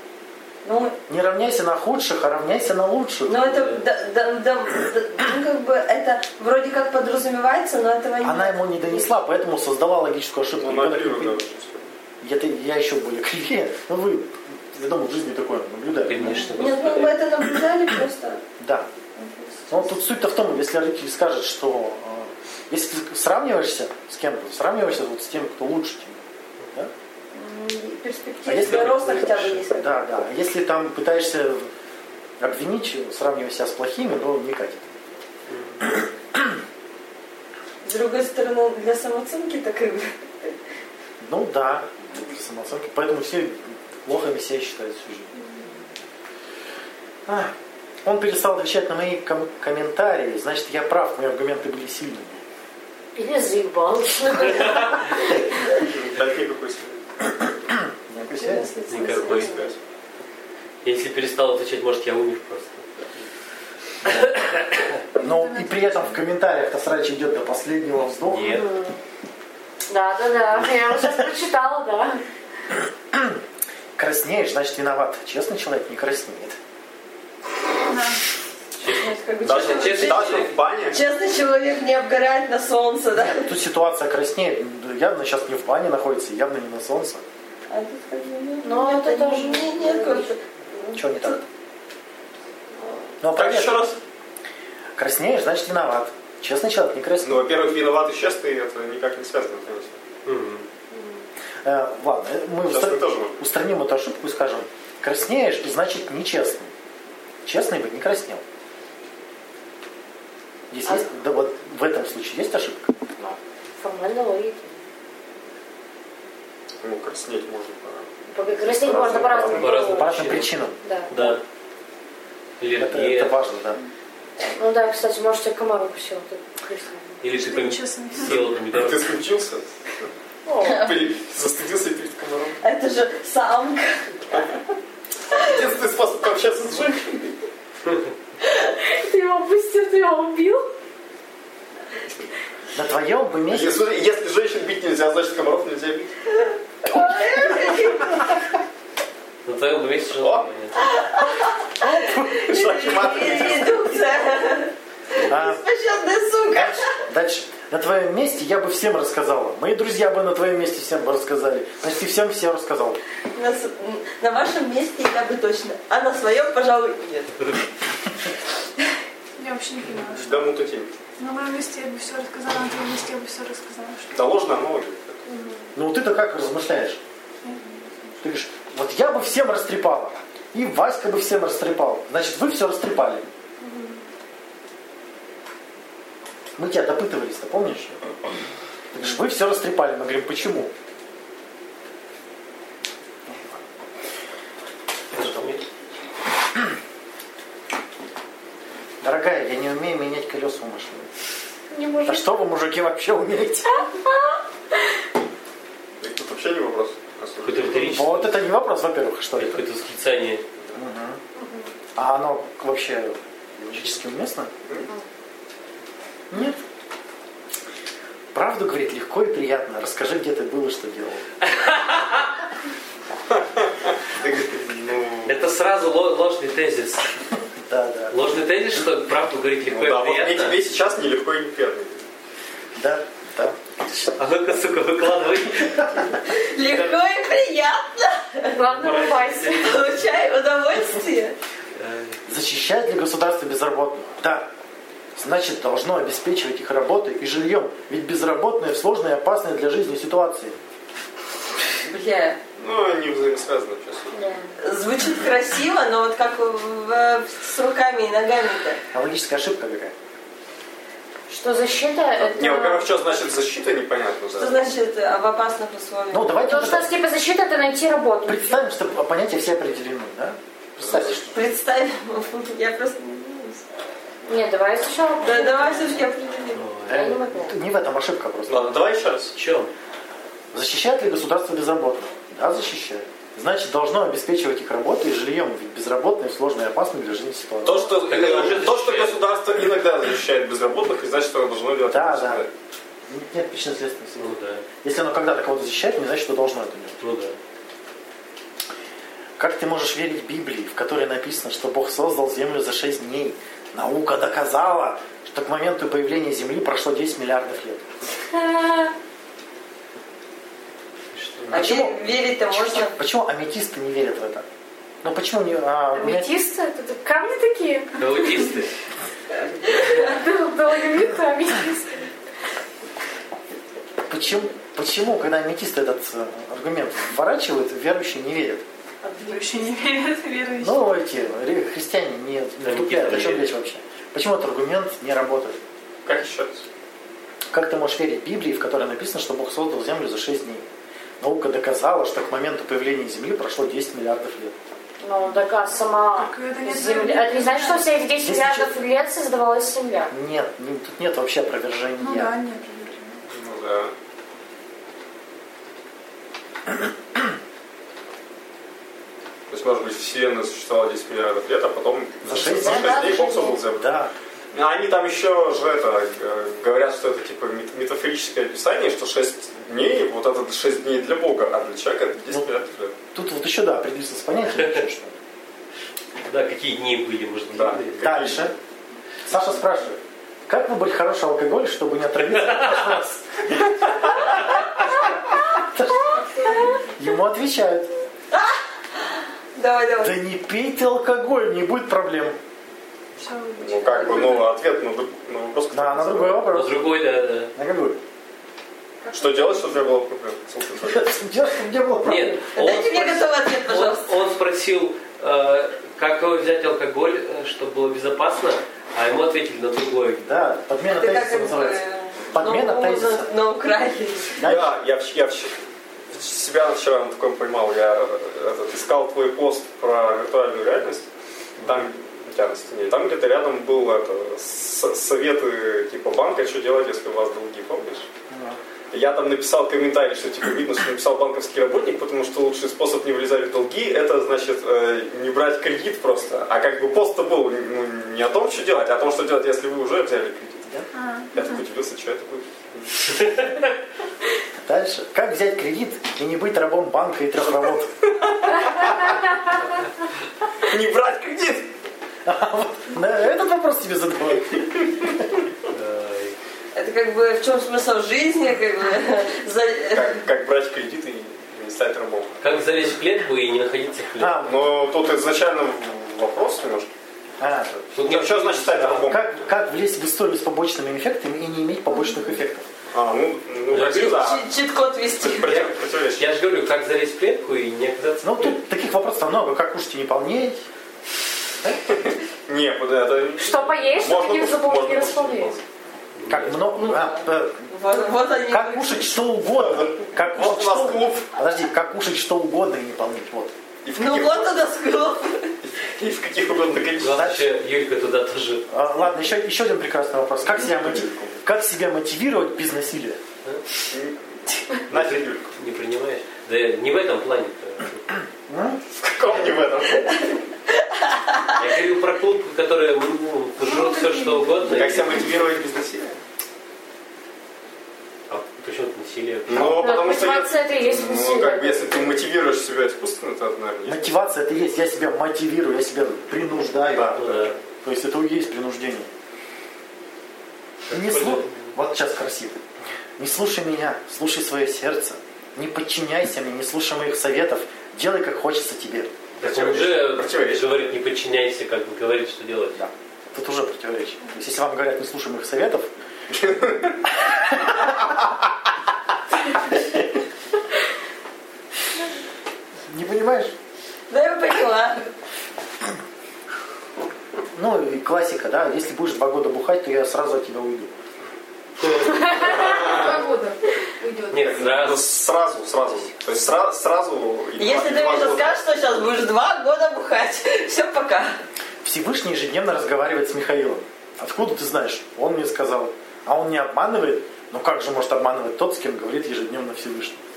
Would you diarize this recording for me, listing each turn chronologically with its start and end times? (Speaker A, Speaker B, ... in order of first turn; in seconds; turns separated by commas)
Speaker A: 0.6-1.0, Speaker B: 1.1-3.5, Speaker A: 3.3-9.1, Speaker C: 3.4-3.8, Speaker B: 8.2-11.4, Speaker D: 10.6-11.9, Speaker B: 12.2-16.5, Speaker C: 15.9-17.2, Speaker A: 16.6-18.4, Speaker B: 18.6-18.9, Speaker A: 19.1-20.0, Speaker B: 19.7-26.2, Speaker A: 27.3-30.1, Speaker B: 28.4-31.7, Speaker C: 28.6-29.6, Speaker B: 32.4-34.8, Speaker C: 35.5-36.0, Speaker A: 37.8-40.5, Speaker B: 41.2-45.3, Speaker B: 47.2-47.5, Speaker B: 48.0-52.4, Speaker E: 53.1-55.6, Speaker D: 55.7-57.0, Speaker B: 57.3-58.7, Speaker A: 58.3-59.7, Speaker C: 58.9-59.5, Speaker D: 59.1-59.7, Speaker C: 60.8-62.8, Speaker C: 64.1-64.9, Speaker F: 65.2-66.2, Speaker B: 65.2-68.6, Speaker C: 68.2-68.7, Speaker E: 68.5-69.0, Speaker E: 69.9-72.2, Speaker B: 73.1-73.4, Speaker B: 74.0-76.6, Speaker F: 77.9-78.2, Speaker C: 78.8-80.6, Speaker A: 78.9-83.5, Speaker D: 79.4-81.0, Speaker B: 83.1-87.2, Speaker A: 87.7-91.4, Speaker E: 88.6-90.3, Speaker B: 90.9-91.4, Speaker B: 93.2-93.8, Speaker D: 93.3-94.0, Speaker B: 95.0-97.5, Speaker D: 97.2-100.0, Speaker C: 100.2-100.6, Speaker E: 100.9-101.2, Speaker B: 101.6-106.7, Speaker D: 102.7-103.4, Speaker B: 107.4-108.4, Speaker B: 110.7-112.9, Speaker E: 113.2-114.8, Speaker D: 116.8-119.8, Speaker E: 118.3-120.1, Speaker C: 119.5-120.5, Speaker B: 119.8-121.3, Speaker E: 120.8-121.3, Speaker C: 121.1-121.4, Speaker C: 122.6-123.5, Speaker B: 122.8-123.8, Speaker E: 124.5-127.2, Speaker C: 127.2-129.1, Speaker F: 127.3-128.4, Speaker D: 128.2-129.7, Speaker E: 130.4-130.8, Speaker A: 130.6-131.0, Speaker D: 130.6-132.6, Speaker A: 132.6-134.4, Speaker D: 135.3-137.4, Speaker E: 138.5-140.7, Speaker B: 142.7-143.8, Speaker D: 143.5-146.1, Speaker A: 146.8-148.6, Speaker C: 149.4-150.8, Speaker D: 150.1-150.4, Speaker A: 150.8-156.9, Speaker B: 151.7-153.6, Speaker D: 152.5-153.8, Speaker B: 155.3-155.6, Speaker B: 156.5-163.0, Speaker A: 163.3-167.6, Speaker F: 169.4-170.4, Speaker D: 170.1-170.9, Speaker F: 171.2-174.1, Speaker D: 174.1-175.2, Speaker E: 175.3-175.6, Speaker B: 175.7-177.0, Speaker F: 177.4-177.9, Speaker B: 178.2-183.2, Speaker E: 183.6-184.0, Speaker B: 186.6-188.0, Speaker B: 188.9-190.7, Speaker B: 193.3-193.6, Speaker C: 195.1-195.6, Speaker B: 199.0-201.1, Speaker E: 201.7-202.3, Speaker B: 202.1-203.7, Speaker E: 203.7-204.1, Speaker D: 206.0-207.9, Speaker C: 207.4-208.4, Speaker B: 207.7-209.7, Speaker C: 209.4-210.4, Speaker B: 210.7-211.2, Speaker E: 211.4-211.7, Speaker B: 211.9-214.5, Speaker B: 216.3-216.6, Speaker B: 218.3-221.2, Speaker C: 221.4-222.3, Speaker D: 223.3-225.4, Speaker C: 225.2-227.1, Speaker B: 227.6-228.2, Speaker C: 228.1-230.6, Speaker D: 229.6-232.0, Speaker B: 232.7-234.1, Speaker C: 234.2-236.9, Speaker A: 236.3-238.6, Speaker E: 238.5-239.8, Speaker C: 238.7-240.1, Speaker A: 239.5-241.4, Speaker C: 241.8-242.2, Speaker B: 242.2-244.5, Speaker B: 245.2-250.6, Speaker A: 251.8-252.4, Speaker D: 252.6-254.3, Speaker E: 254.1-254.5, Speaker A: 254.6-258.8, Speaker B: 258.9-259.9, Speaker E: 261.3-262.9, Speaker D: 262.2-264.7, Speaker A: 264.4-266.4, Speaker B: 266.1-266.9, Speaker E: 266.4-268.6, Speaker B: 268.2-271.3, Speaker D: 270.8-271.3, Speaker A: 271.3-273.6, Speaker E: 274.2-276.0, Speaker A: 275.2-276.6, Speaker C: 276.6-277.1, Speaker E: 276.9-277.6, Speaker B: 276.9-278.9, Speaker D: 278.5-279.3, Speaker C: 279.3-279.7, Speaker B: 280.5-288.0, Speaker D: 287.6-292.5, Speaker C: 288.0-289.2, Speaker B: 291.9-292.4, Speaker B: 293.1-297.0, Speaker C: 294.2-294.6, Speaker C: 297.0-297.4, Speaker B: 299.4-307.9, Speaker E: 308.3-308.9, Speaker C: 311.1-311.6, Speaker A: 311.5-312.9, Speaker B: 311.5-314.4, Speaker B: 315.0-316.3, Speaker E: 315.9-318.5, Speaker C: 318.0-318.7, Speaker E: 319.6-322.1, Speaker B: 324.1-328.6, Speaker E: 329.0-329.5, Speaker F: 329.2-330.9, Speaker B: 330.6-335.6, Speaker C: 332.6-333.5, Speaker D: 336.1-336.6, Speaker B: 337.5-340.6, Speaker B: 341.2-344.6, Speaker E: 345.0-350.1, Speaker F: 346.1-348.1, Speaker B: 348.2-348.7, Speaker B: 350.1-352.4, Speaker F: 352.0-353.2, Speaker D: 353.3-353.9, Speaker D: 359.5-363.9, Speaker B: 362.2-363.2, Speaker E: 362.8-363.5, Speaker A: 362.9-363.5, Speaker B: 363.7-364.1, Speaker D: 364.5-372.9, Speaker B: 373.1-375.1, Speaker C: 376.3-378.5, Speaker D: 377.5-378.5, Speaker B: 378.0-378.5, Speaker B: 379.2-386.2, Speaker C: 382.4-382.9, Speaker B: 387.0-387.9, Speaker A: 388.3-390.2, Speaker B: 390.0-392.4, Speaker F: 393.2-394.5, Speaker D: 393.6-396.4, Speaker B: 395.7-397.0, Speaker C: 396.5-397.5, Speaker B: 397.6-398.0, Speaker F: 399.1-399.6, Speaker D: 399.1-401.2, Speaker B: 400.8-402.6, Speaker C: 402.0-410.2, Speaker A: 402.6-404.1, Speaker B: 410.2-413.3, Speaker A: 410.9-414.4, Speaker B: 414.4-414.7, Speaker D: 414.4-421.1, Speaker D: 421.6-428.1, Speaker B: 428.3-428.6, Speaker D: 428.9-440.6, Speaker F: 440.9-441.6, Speaker D: 441.3-443.5, Speaker B: 444.6-447.9, Speaker D: 448.2-449.2, Speaker D: 450.6-451.7, Speaker B: 452.2-455.2, Speaker C: 455.7-456.4, Speaker A: 456.7-460.2, Speaker D: 459.9-462.4, Speaker C: 462.4-464.4, Speaker B: 464.2-464.6, Speaker D: 464.4-466.9, Speaker B: 467.4-467.8, Speaker C: 467.9-469.1, Speaker D: 467.9-469.2, Speaker B: 469.0-472.6, Speaker D: 472.9-474.4, Speaker C: 473.7-474.2, Speaker A: 474.1-475.6, Speaker D: 475.2-476.3, Speaker C: 475.4-478.9, Speaker B: 478.2-480.6, Speaker D: 481.9-485.6, Speaker E: 483.4-485.6, Speaker C: 486.1-486.6, Speaker B: 486.3-487.7, Speaker A: 486.7-489.2, Speaker B: 488.5-493.5, Speaker D: 489.4-491.3, Speaker D: 493.8-494.6, Speaker A: 493.9-495.5, Speaker D: 495.6-497.3, Speaker C: 497.0-498.7, Speaker B: 497.0-497.5, Speaker B: 498.7-503.2, Speaker D: 500.4-501.4, Speaker D: 503.9-505.5, Speaker C: 504.9-508.2, Speaker B: 508.5-508.8, Speaker D: 508.9-510.2, Speaker C: 511.6-515.1, Speaker G: 513.6-514.8, Speaker D: 514.7-516.2, Speaker C: 518.3-519.9, Speaker D: 519.5-524.2, Speaker E: 519.5-522.1, Speaker B: 523.8-529.1, Speaker D: 526.9-527.5, Speaker C: 527.1-527.6, Speaker C: 530.9-531.7, Speaker B: 530.9-532.6, Speaker B: 533.2-539.1, Speaker C: 539.4-542.8, Speaker D: 539.4-540.9, Speaker B: 542.8-545.9, Speaker D: 546.3-548.0, Speaker B: 552.9-553.5, Speaker A: 554.1-555.1, Speaker B: 557.5-560.9, Speaker C: 561.8-562.8, Speaker D: 562.5-563.2, Speaker G: 562.8-564.5, Speaker C: 564.3-565.0, Speaker D: 564.5-568.6, Speaker A: 567.6-571.4, Speaker B: 571.8-580.2